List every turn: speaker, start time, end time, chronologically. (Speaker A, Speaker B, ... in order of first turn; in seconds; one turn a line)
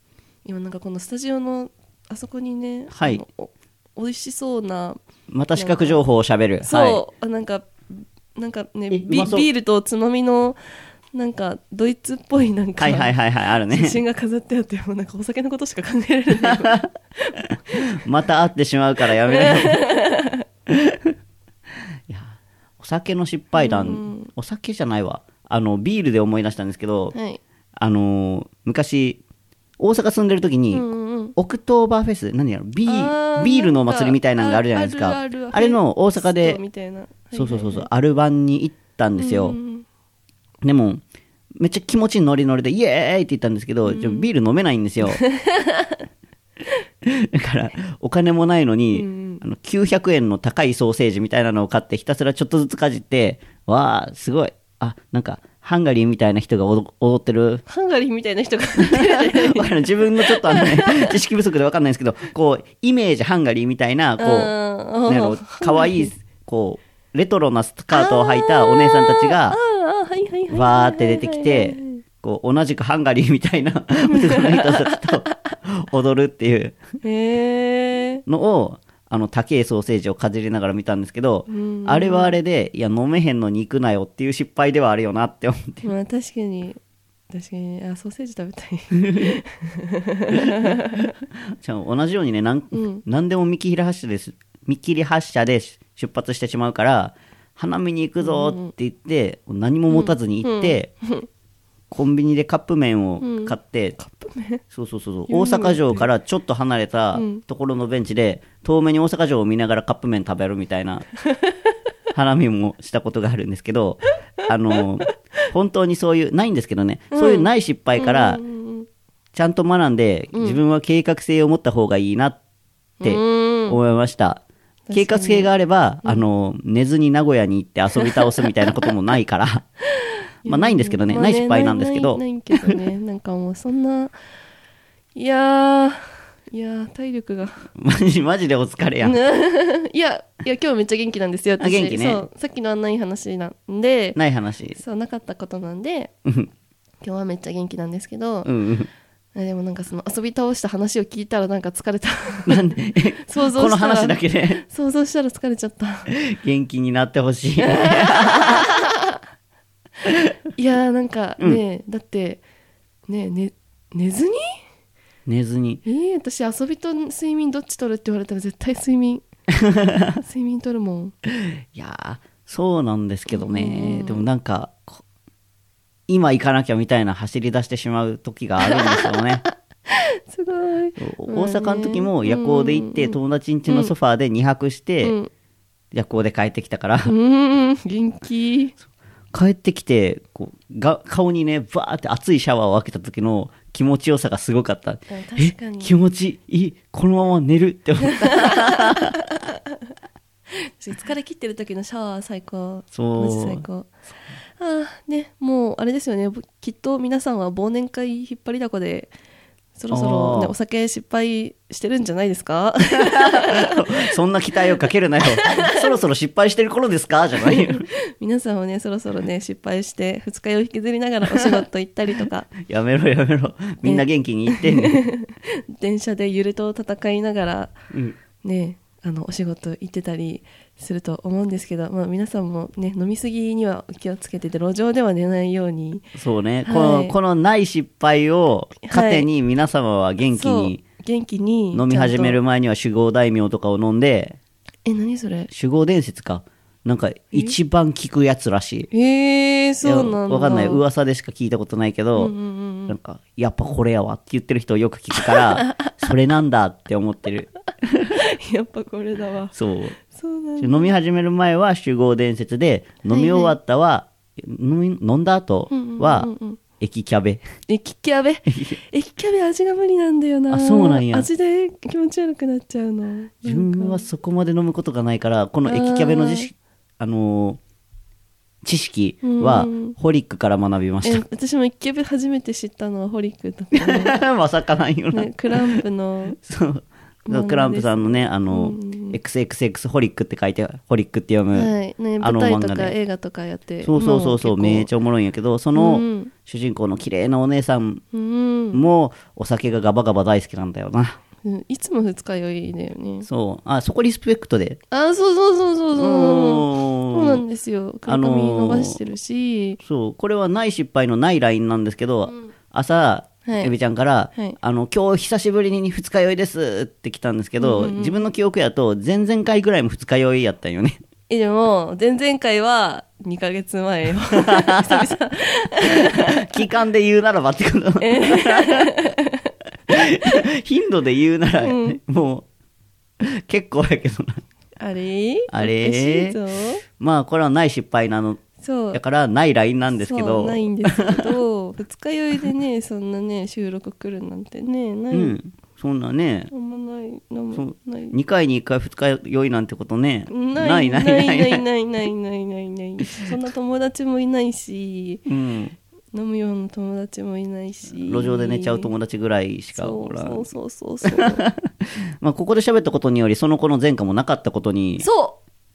Speaker A: 0.4-5.0
Speaker B: 2.9-3.2
Speaker B: 5.3-7.0
Speaker A: 5.5-6.0
Speaker A: 6.6-10.6
Speaker B: 8.9-9.5
Speaker A: 11.1-13.1
Speaker B: 12.8-14.0
Speaker A: 13.7-17.4
Speaker B: 16.3-16.9
Speaker B: 17.4-19.8
Speaker A: 19.3-20.4
Speaker B: 20.7-21.1
Speaker B: 22.1-27.1
Speaker A: 23.6-24.3
Speaker A: 27.1-27.4
Speaker B: 27.8-29.2
Speaker B: 29.8-36.6
Speaker A: 30.7-31.3
Speaker A: 32.9-37.9
Speaker B: 37.3-39.6
Speaker A: 39.1-39.8
Speaker B: 40.6-41.0
Speaker B: 41.5-45.2
Speaker A: 43.8-44.3
Speaker A: 45.1-46.0
Speaker B: 47.0-57.6
Speaker A: 48.9-49.4
Speaker A: 57.7-61.1
Speaker B: 58.8-64.5
Speaker A: 64.2-66.1
Speaker B: 65.1-69.6
Speaker A: 67.9-72.0
Speaker B: 70.5-76.8
Speaker A: 74.1-75.0
Speaker A: 77.0-78.2
Speaker B: 78.2-85.9
Speaker A: 81.5-82.3
Speaker A: 85.8-86.8
Speaker A: 87.3-91.1
Speaker B: 91.5-100.9
Speaker A: 92.7-93.0
Speaker A: 98.2-98.7
Speaker A: 99.9-101.3
Speaker B: 101.9-104.0
Speaker A: 103.2-104.6
Speaker B: 104.7-111.1
Speaker A: 105.3-106.0
Speaker A: 107.1-107.4
Speaker B: 112.1-118.4
Speaker A: 117.1-118.9
Speaker B: 119.3-122.4
Speaker A: 120.3-120.6
Speaker A: 123.0-123.8
Speaker B: 123.0-129.7
Speaker A: 124.9-125.5
Speaker A: 128.0-128.8
Speaker A: 130.0-134.1
Speaker B: 130.4-132.7
Speaker A: 135.1-137.7
Speaker B: 137.8-139.2
Speaker A: 139.0-144.2
Speaker B: 141.6-142.2
Speaker B: 144.2-144.8
Speaker A: 144.8-146.1
Speaker B: 146.2-146.5
Speaker A: 147.0-148.5
Speaker B: 148.4-148.9
Speaker A: 149.3-156.1
Speaker B: 152.5-154.6
Speaker B: 156.1-158.7
Speaker A: 157.6-159.2
Speaker B: 160.1-160.3
Speaker A: 160.6-162.4
Speaker A: 163.1-164.6
Speaker B: 165.2-165.8
Speaker A: 165.8-169.2
Speaker B: 169.6-170.2
Speaker A: 170.2-171.1
Speaker B: 171.3-175.0
Speaker A: 173.3-174.2
Speaker B: 176.1-179.4
Speaker A: 178.7-183.9
Speaker B: 181.0-185.2
Speaker A: 185.0-185.3
Speaker B: 185.9-187.1
Speaker A: 187.1-188.7
Speaker B: 189.3-199.1
Speaker A: 195.1-195.9
Speaker A: 198.1-199.1
Speaker A: 200.8-203.9
Speaker B: 202.9-203.6
Speaker A: 204.6-209.1
Speaker A: 209.8-214.0
Speaker B: 209.9-210.5
Speaker B: 213.0-217.8
Speaker A: 215.3-215.8
Speaker A: 217.4-222.5
Speaker B: 221.3-221.6
Speaker B: 222.6-225.0
Speaker A: 223.8-227.8
Speaker B: 227.9-228.2
Speaker A: 228.4-236.0
Speaker B: 236.1-240.8
Speaker A: 236.6-237.1
Speaker A: 238.8-239.2
Speaker A: 240.3-242.4
Speaker B: 241.7-244.4
Speaker A: 244.8-245.5
Speaker B: 245.5-248.9
Speaker A: 248.9-250.8
Speaker B: 249.8-252.3
Speaker A: 252.1-252.9
Speaker B: 252.9-258.2
Speaker A: 258.1-260.9
Speaker B: 259.5-260.0
Speaker B: 260.6-267.4
Speaker A: 263.1-263.5
Speaker A: 265.7-266.6
Speaker A: 267.7-274.1
Speaker B: 268.5-268.8
Speaker B: 270.5-271.3
Speaker B: 273.4-277.6
Speaker A: 275.6-276.5
Speaker B: 278.6-281.2
Speaker A: 279.2-279.9
Speaker A: 281.0-284.1
Speaker B: 283.8-285.8
Speaker A: 285.1-286.4
Speaker B: 286.4-292.9
Speaker A: 287.2-289.2
Speaker A: 291.5-294.9
Speaker B: 293.8-298.0
Speaker A: 295.7-296.3
Speaker A: 298.1-298.8
Speaker B: 298.7-301.2
Speaker A: 301.4-303.3
Speaker B: 303.2-304.8
Speaker A: 304.9-309.8
Speaker B: 305.9-307.4
Speaker B: 308.1-309.0
Speaker B: 309.8-321.0
Speaker A: 313.4-313.7
Speaker A: 317.6-318.2
Speaker A: 321.3-326.6
Speaker B: 324.3-325.1
Speaker B: 326.1-328.9
Speaker A: 328.0-329.5
Speaker B: 329.9-332.4
Speaker A: 331.6-331.9
Speaker B: 333.2-334.4
Speaker A: 334.8-336.8
Speaker B: 335.5-336.4
Speaker B: 336.9-341.3
Speaker A: 338.6-339.0
Speaker A: 339.9-345.4
Speaker B: 345.1-346.5
Speaker A: 346.5-348.1
Speaker B: 347.5-351.6
Speaker A: 350.3-355.2
Speaker B: 355.3-355.7
Speaker A: 356.1-358.9
Speaker B: 357.9-360.4
Speaker A: 359.7-361.4
Speaker B: 361.0-365.1
Speaker A: 365.0-365.4